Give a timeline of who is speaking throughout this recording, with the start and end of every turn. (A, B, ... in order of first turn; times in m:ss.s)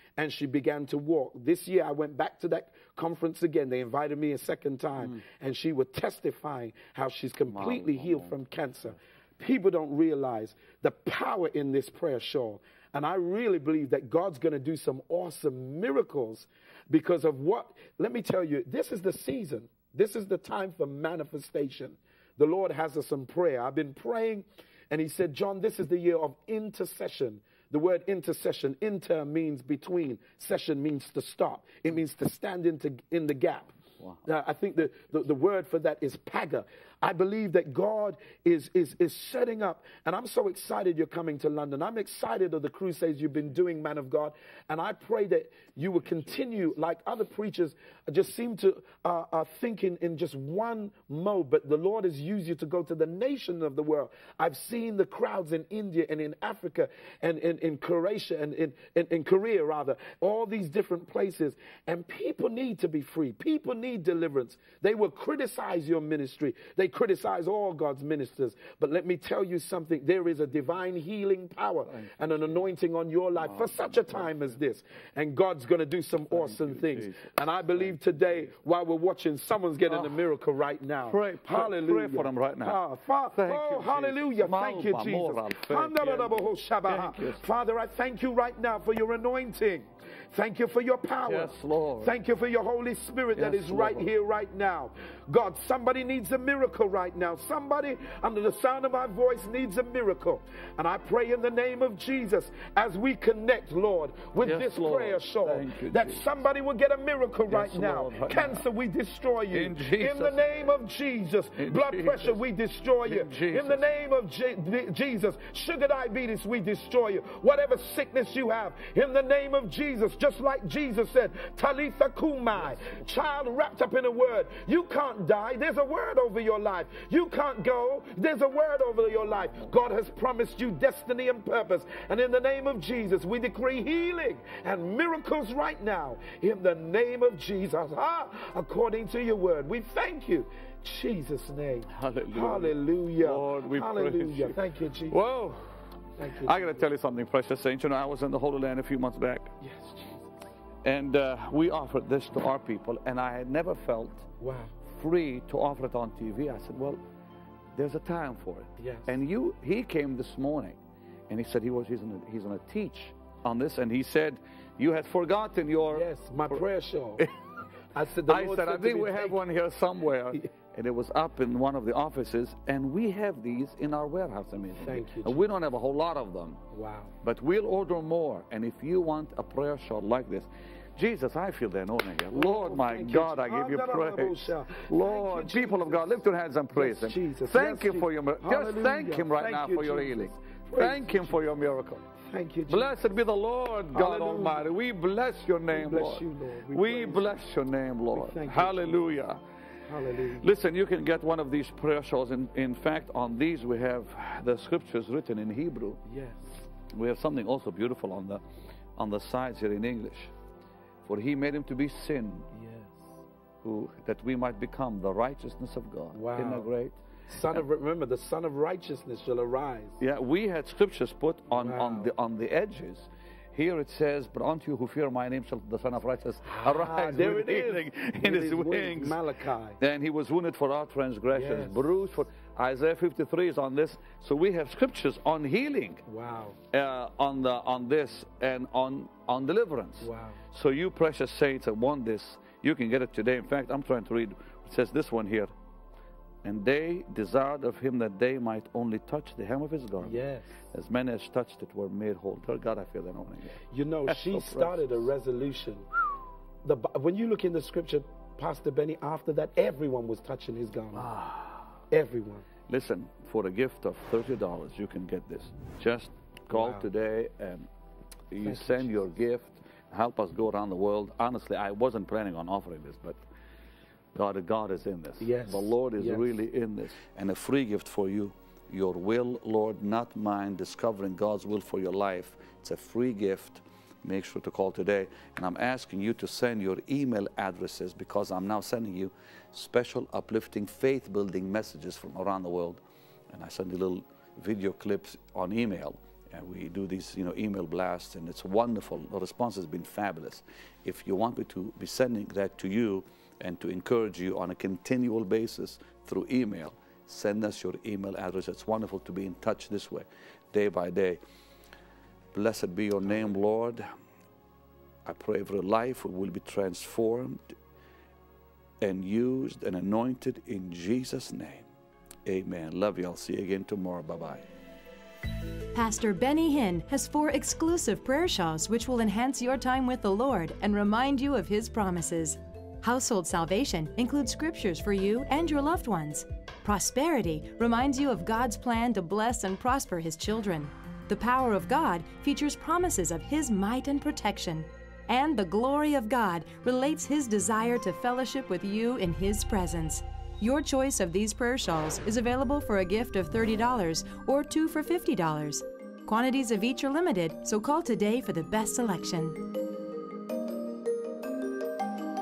0:00.2-0:33.7 A
0:07.5-0:08.4 B
0:34.2-2:25.2 A
1:11.9-1:12.6 B
1:13.4-1:14.6 B
1:16.2-1:18.5 B
1:19.9-1:20.2 B
1:21.1-1:22.8 B
1:23.3-1:27.4 B
1:31.3-1:32.2 B
1:33.4-1:34.1 B
1:44.4-1:46.4 B
1:47.5-1:48.6 B
1:49.5-1:50.8 B
1:51.6-1:52.4 B
1:53.0-1:53.8 B
2:02.6-2:02.9 B
2:09.3-2:09.7 B
2:21.9-2:24.6 B
2:25.1-2:25.8 B
2:26.2-2:26.9 A
2:26.4-2:29.5 B
2:29.6-2:30.4 A
2:30.8-2:34.3 B
2:34.4-2:34.8 A
2:34.8-2:37.0 B
2:37.7-2:46.6 B
2:38.8-2:39.1 A
2:45.9-2:47.2 A
2:47.9-2:49.4 A
2:48.3-2:56.6 B
2:54.8-2:55.4 A
2:56.7-2:57.1 A
2:57.2-3:12.0 B
3:02.3-3:06.2 A
3:06.7-3:11.4 A
3:12.2-3:13.0 A
3:12.7-3:19.4 B
3:13.9-3:14.6 A
3:15.7-3:17.4 A
3:18.1-3:19.0 A
3:19.9-3:20.5 A
3:20.4-3:26.0 B
3:26.0-3:26.6 A
3:26.9-3:28.4 B
3:29.0-3:30.3 B
3:31.0-3:32.5 B
3:32.5-3:33.0 A
3:33.6-3:37.0 B
3:36.1-3:36.7 A
3:37.3-3:40.0 A
3:40.0-3:49.2 B
3:41.5-3:42.1 A
3:46.5-3:49.8 A
3:49.8-3:56.0 B
3:51.3-3:51.8 A
3:56.1-3:56.6 A
3:56.7-4:05.5 B
4:00.0-4:00.4 A
4:06.4-4:10.2 B
4:10.0-4:10.6 A
4:10.7-4:15.0 B
4:13.7-4:15.9 A
4:16.6-4:21.2 A
4:21.0-4:21.5 B
4:21.9-4:22.4 A
4:22.7-4:27.7 B
4:26.5-4:26.8 A
4:28.3-4:33.2 B
4:28.4-4:29.0 A
4:34.1-5:11.2 B
4:35.2-4:36.3 A
5:12.3-5:13.9 B
5:15.0-5:17.5 B
5:18.8-5:21.6 B
5:22.2-5:24.4 B
5:25.7-5:59.4 C